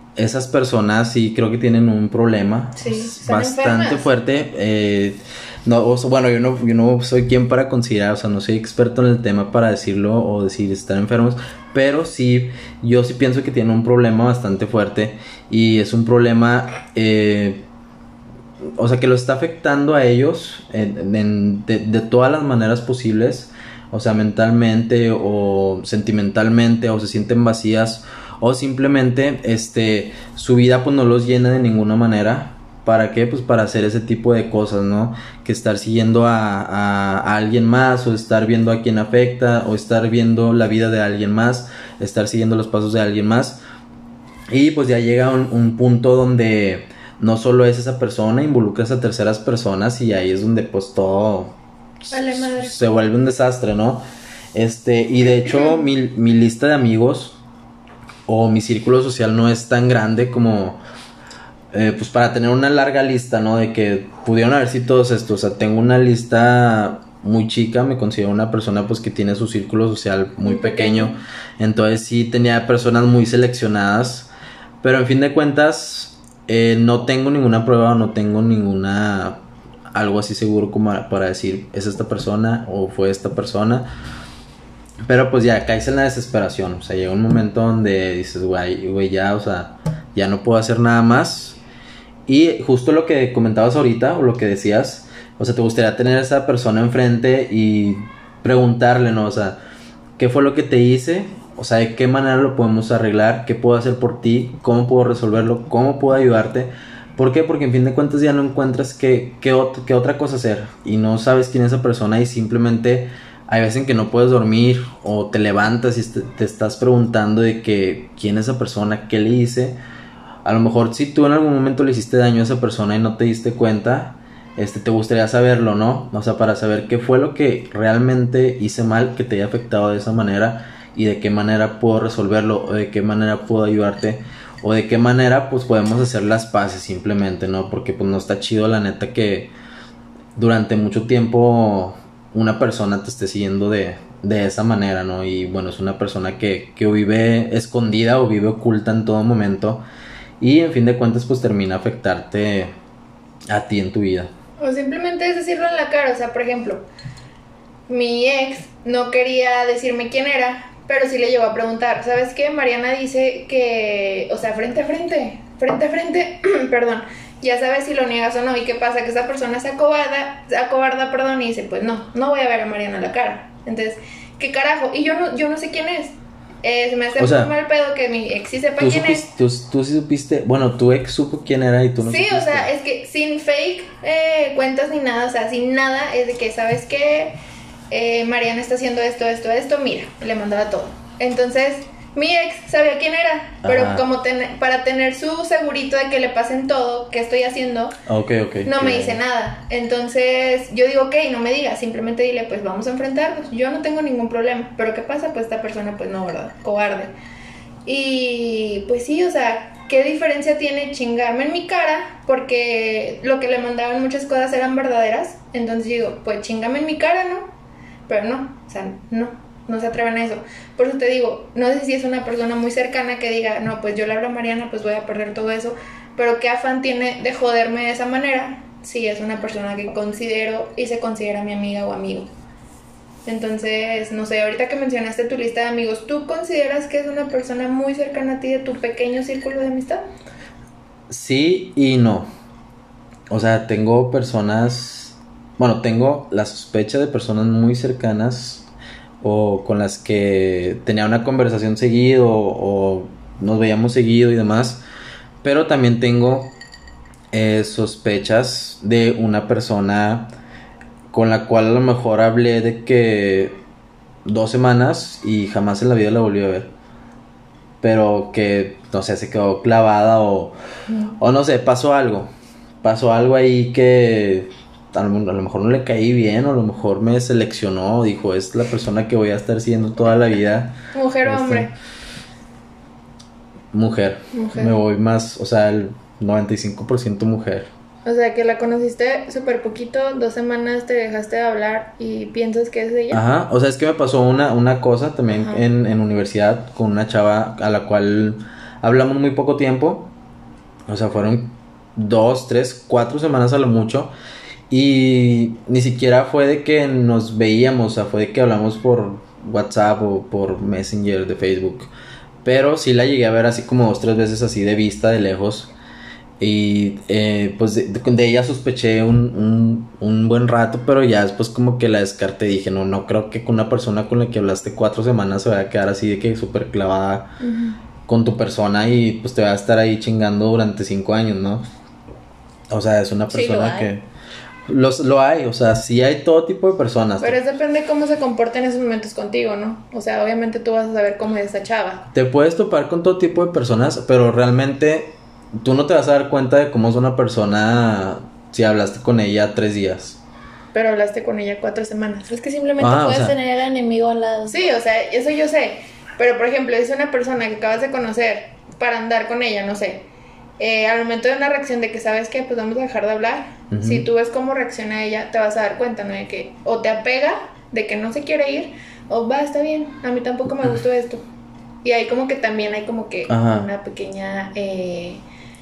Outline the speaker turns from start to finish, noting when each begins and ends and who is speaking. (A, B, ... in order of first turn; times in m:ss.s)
0:00.2-0:17.6 A
0:02.8-0:04.1 B
0:18.8-0:43.6 A
0:44.5-0:51.6 A
0:52.1-0:57.4 A
0:52.1-0:52.8 B
0:58.3-1:00.8 A
1:01.7-1:14.3 A
1:10.4-1:11.1 B
1:14.8-1:23.9 A
1:25.1-1:31.6 A
1:32.3-1:39.6 A
1:40.2-1:59.8 A
2:00.4-2:19.5 A
2:20.4-2:29.8 A
2:30.4-2:32.7 A
2:33.5-2:34.3 A
2:34.6-2:36.9 B
2:37.9-2:59.3 B
2:57.2-2:57.5 A
2:58.8-3:02.7 A
3:02.0-3:07.4 B
3:07.9-3:18.0 B
3:13.6-3:14.1 A
3:18.1-3:19.2 A
3:18.6-3:27.1 B
3:27.9-3:37.5 B
3:38.1-3:52.3 B
3:53.2-4:00.0 B
4:01.1-4:02.3 A
4:03.3-4:08.7 A
4:09.2-4:14.8 A
4:15.4-4:16.5 A
4:17.3-4:20.3 A
4:21.1-4:23.6 A
4:24.2-4:26.7 A
4:27.8-4:30.6 A
4:31.2-4:32.3 A
4:32.8-4:41.7 A
4:40.9-4:41.7 B
4:43.7-4:47.7 A
4:44.3-4:44.7 B
4:48.0-4:53.2 B
4:53.1-5:00.1 A
4:55.3-4:55.6 B
5:00.9-5:04.1 A
5:04.7-5:11.9 A
5:12.4-5:15.7 A
5:16.4-5:27.4 A
5:27.4-5:27.8 B
5:28.1-5:31.6 A
5:32.7-5:34.0 A
5:33.3-5:33.9 C
5:34.7-5:37.4 A
5:37.2-5:42.1 B
5:42.1-5:50.2 A
5:50.7-5:52.3 B
5:52.3-5:54.7 C
5:52.8-5:53.4 A
5:54.5-6:00.1 B
6:00.6-6:11.2 B
6:03.7-6:04.1 A
6:11.8-6:15.2 B
6:13.3-6:13.7 A